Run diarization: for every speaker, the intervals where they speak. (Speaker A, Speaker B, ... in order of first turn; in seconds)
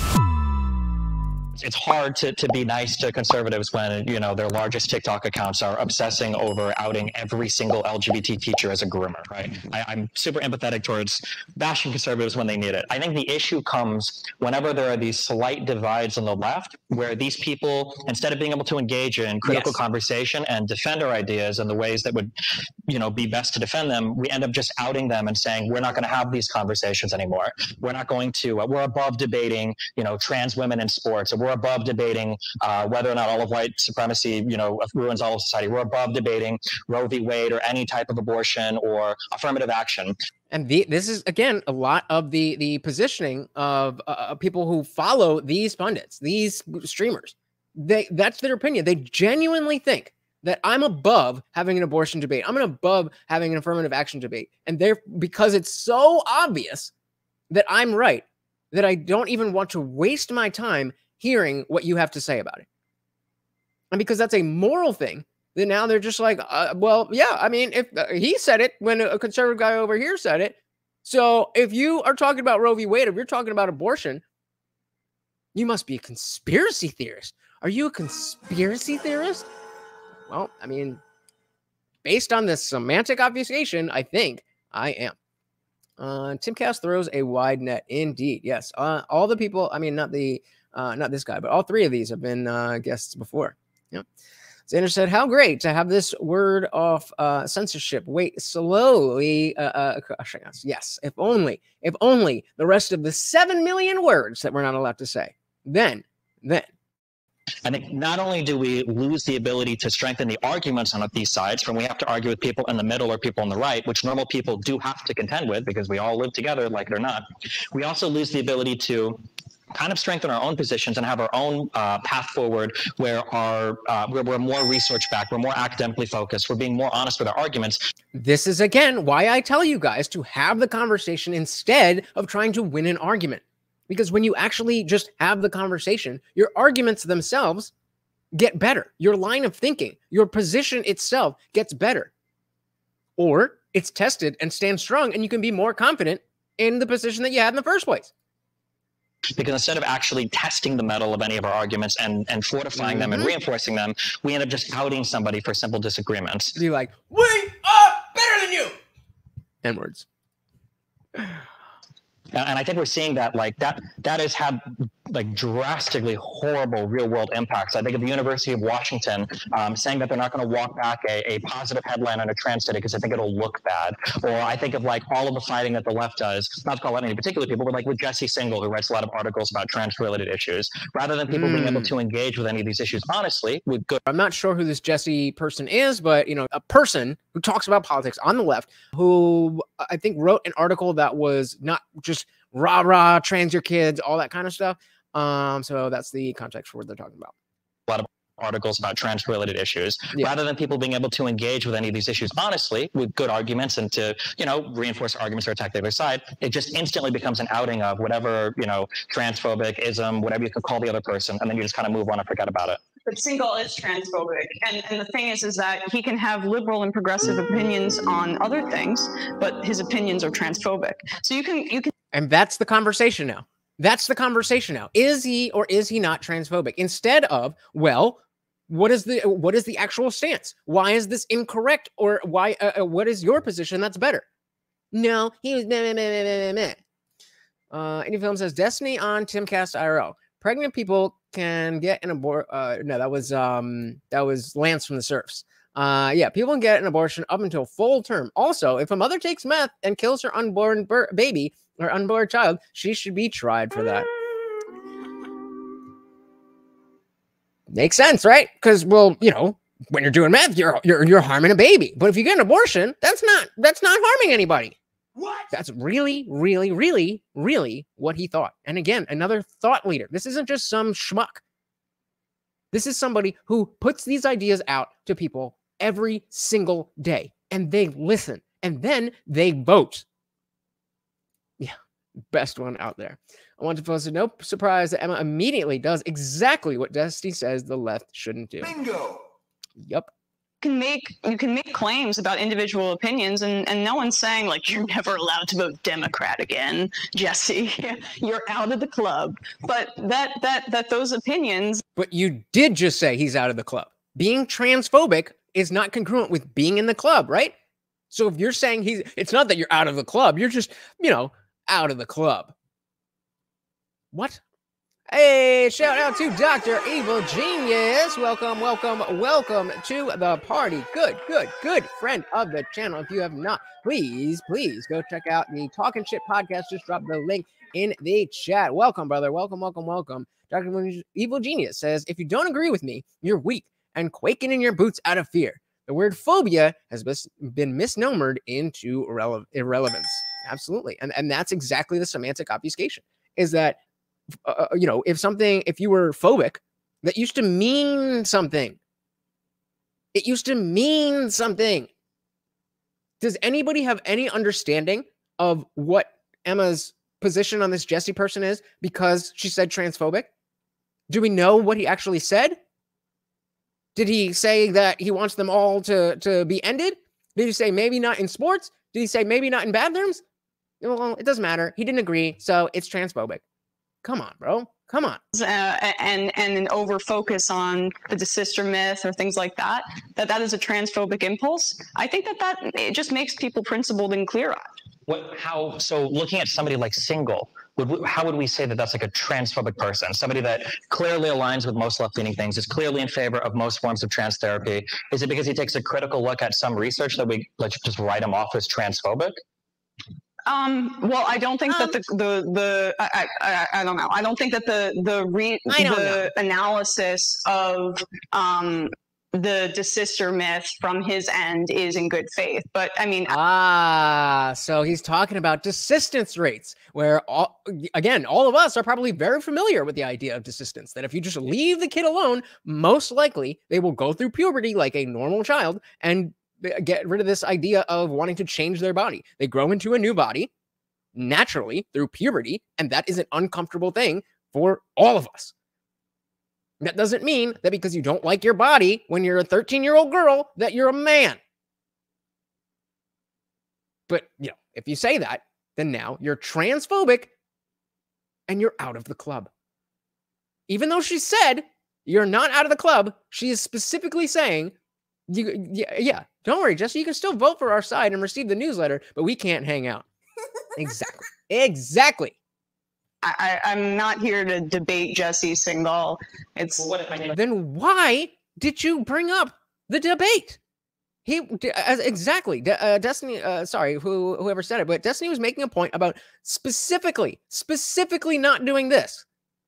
Speaker A: 1.6-22.3, 22.9-40.1, 107.7-119.2, 119.7-127.8, 149.3-156.6, 162.3-184.0, 197.9-212.8, 385.1-399.3, 466.8-467.4
Speaker B: 19.5-19.8, 40.5-56.9, 57.5-62.7, 63.9-74.2, 75.5-79.5, 80.3-81.0, 82.0-85.2, 86.0-94.0, 94.7-106.7, 128.1-137.7, 138.3-142.1, 143.2-148.1, 152.8-153.3, 156.6-158.8, 159.6-160.1, 181.3-181.9, 184.1-197.3, 222.1-234.3, 234.9-236.8, 237.7-254.1, 257.7-264.8, 265.3-271.4, 272.7-280.1, 282.3-289.1, 289.8-290.1, 302.0-307.6, 308.1-312.5, 314.1-314.4, 315.1-343.8, 344.4-348.8, 350.1-351.9, 353.2-360.3, 361.1-362.6, 363.9-370.2, 370.8-373.4, 374.0-375.2, 401.7-402.0, 405.7-406.3, 413.3-430.5, 431.1-435.5, 436.8-441.4, 444.1-447.3, 448.5-449.5, 450.7-454.7, 455.3-460.1, 460.8-462.4, 467.3-470.6, 471.2-479.2
Speaker C: 213.1-221.9, 290.6-301.8, 375.3-384.7, 400.5-413.4, 463.2-466.9